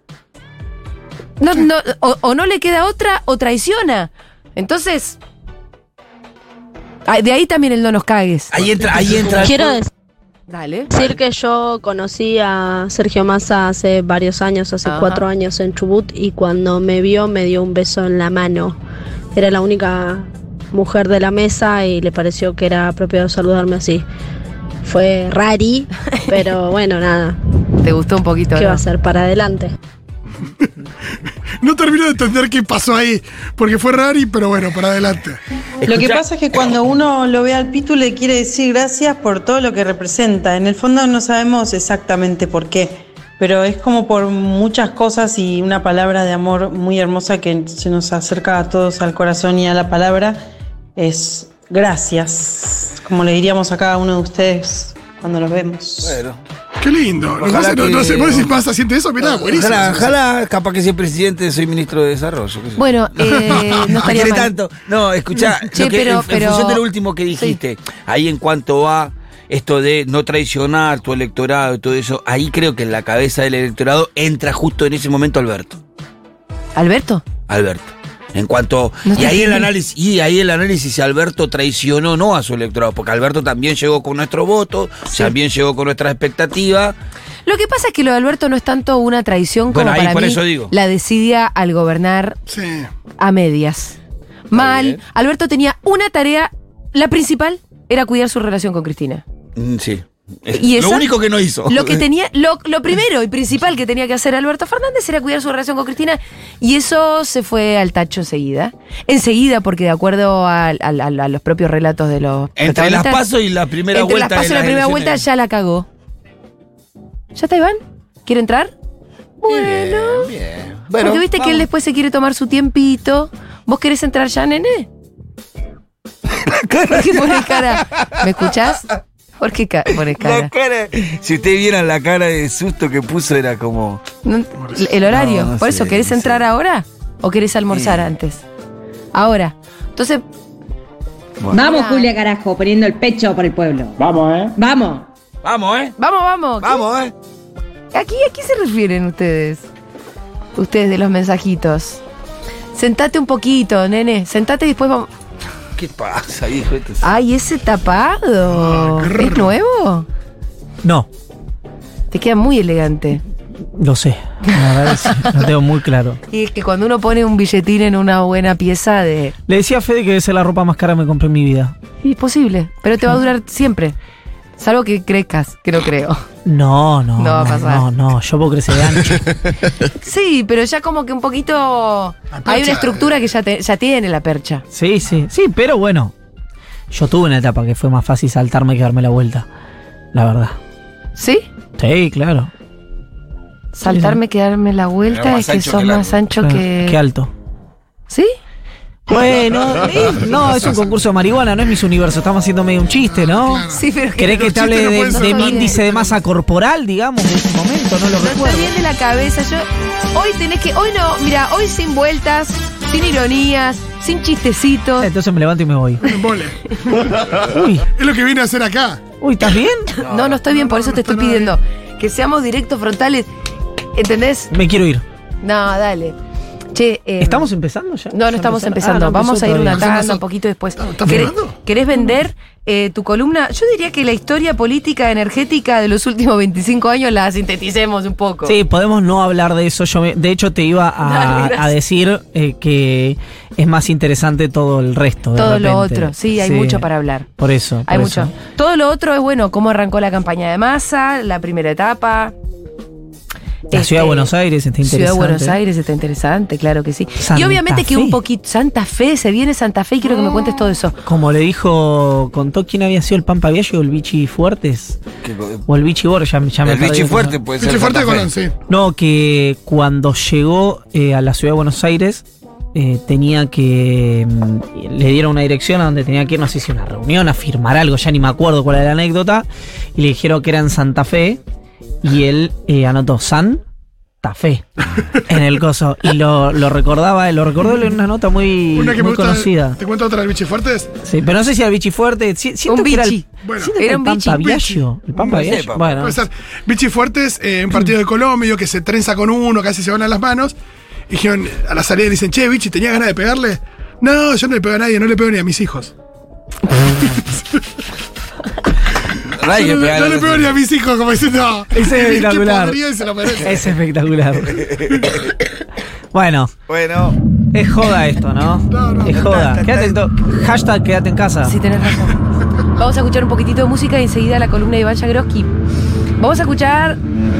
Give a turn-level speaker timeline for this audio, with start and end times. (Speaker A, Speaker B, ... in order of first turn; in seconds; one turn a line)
Speaker A: 1.4-5.2
Speaker A: 7.0-8.5
Speaker B: 8.5-9.8
Speaker A: 10.5-10.9
Speaker C: 11.3-18.8
Speaker A: 14.8-15.2
Speaker C: 19.4-24.0
Speaker C: 24.9-27.4
Speaker A: 27.8-28.8
Speaker C: 28.6-29.7
Speaker D: 31.6-35.4
Speaker E: 35.8-50.4
Speaker E: 51.0-56.2
Speaker B: 56.0-56.4
Speaker D: 56.8-60.1
Speaker B: 57.4-58.5
Speaker B: 59.2-75.8
Speaker A: 62.8-64.5
Speaker D: 63.5-63.8
Speaker A: 65.7-66.8
Speaker A: 76.8-77.2
Speaker B: 77.5-87.0
Speaker A: 79.1-79.7
Speaker A: 87.5-92.4
Speaker B: 89.7-90.7
Speaker D: 92.5-92.9
Speaker A: 93.2-94.0
Speaker A: 94.5-99.2
Speaker B: 94.5-95.0
Speaker B: 99.5-102.0
Speaker A: 100.5-101.1
Speaker A: 101.7-113.2
Speaker B: 112.6-115.2
Speaker A: 113.9-115.9
Speaker A: 117.3-118.7
Speaker A: 119.4-120.3
Speaker B: 119.4-121.7
Speaker A: 121.0-124.9
Speaker B: 126.3-128.7
Speaker A: 126.8-128.9
Speaker A: 129.4-130.5
Speaker B: 130.1-134.0
Speaker A: 134.2-138.4
Speaker D: 134.6-134.9
Speaker B: 135.1-136.4
Speaker B: 137.7-138.1
Speaker A: 139.1-140.2
Speaker B: 141.4-141.6
Speaker F: 141.5-145.1
Speaker A: 141.6-142.1
Speaker B: 145.4-146.0
Speaker A: 146.0-146.9
Speaker B: 146.6-147.1
Speaker A: 147.9-149.7
Speaker A: 150.5-152.0
Speaker A: 152.7-155.1
Speaker B: 155.8-157.1
Speaker A: 157.0-160.1
Speaker D: 158.5-159.6
Speaker A: 162.1-163.2
Speaker G: 163.8-166.2
Speaker A: 164.9-165.2
Speaker A: 166.3-169.3
Speaker G: 169.5-171.7
Speaker A: 172.0-174.0
Speaker A: 174.6-176.2
Speaker G: 176.4-179.3
Speaker A: 177.2-177.9
Speaker A: 179.9-184.6
Speaker D: 182.3-183.1
Speaker G: 184.7-186.1
Speaker G: 186.9-189.5
Speaker G: 190.1-190.6
Speaker A: 191.2-191.4
Speaker G: 191.8-192.5
Speaker A: 193.8-197.0
Speaker G: 193.8-194.2
Speaker B: 195.1-196.2
Speaker G: 196.4-197.3
Speaker G: 199.1-208.7
Speaker A: 200.0-200.3
Speaker D: 200.0-200.9
Speaker D: 203.1-206.2
Speaker A: 203.7-205.8
Speaker A: 208.2-215.1
Speaker G: 215.0-216.0
Speaker D: 216.0-217.2
Speaker G: 217.3-217.8
Speaker D: 217.9-219.0
Speaker G: 219.2-219.9
Speaker B: 220.0-220.4
Speaker A: 220.0-223.3
Speaker D: 220.3-221.5
Speaker A: 223.9-224.5
Speaker G: 224.5-225.0
Speaker A: 225.4-226.2
Speaker A: 226.7-227.5
Speaker G: 227.2-230.0
Speaker A: 228.1-238.5
Speaker D: 229.7-230.2
Speaker D: 230.8-231.5
Speaker G: 231.0-231.3
Speaker G: 238.4-246.8
Speaker A: 241.0-241.7
Speaker A: 245.3-247.3
Speaker G: 247.4-248.3
Speaker A: 247.8-252.3
Speaker A: 253.7-261.0
Speaker G: 253.7-255.6
Speaker G: 257.2-258.2
Speaker G: 261.0-265.0
Speaker B: 265.2-265.7
Speaker G: 265.7-267.3
Speaker B: 266.6-268.3
Speaker D: 267.6-268.5
Speaker G: 268.7-281.4
Speaker G: 282.0-283.6
Speaker G: 284.2-289.8
Speaker D: 288.7-290.9
Speaker G: 291.0-296.2
Speaker A: 292.7-294.5
Speaker D: 293.4-293.7
Speaker D: 294.4-300.6
Speaker B: 295.4-295.9
Speaker D: 301.1-305.9
Speaker B: 309.3-310.5
Speaker D: 309.5-313.8
Speaker G: 311.7-312.8
Speaker G: 313.4-315.3
Speaker G: 316.1-316.5
Speaker B: 316.7-317.2
Speaker G: 317.5-321.5
Speaker D: 318.7-319.3
Speaker B: 319.1-320.0
Speaker A: 321.4-325.5
Speaker A: 326.2-327.0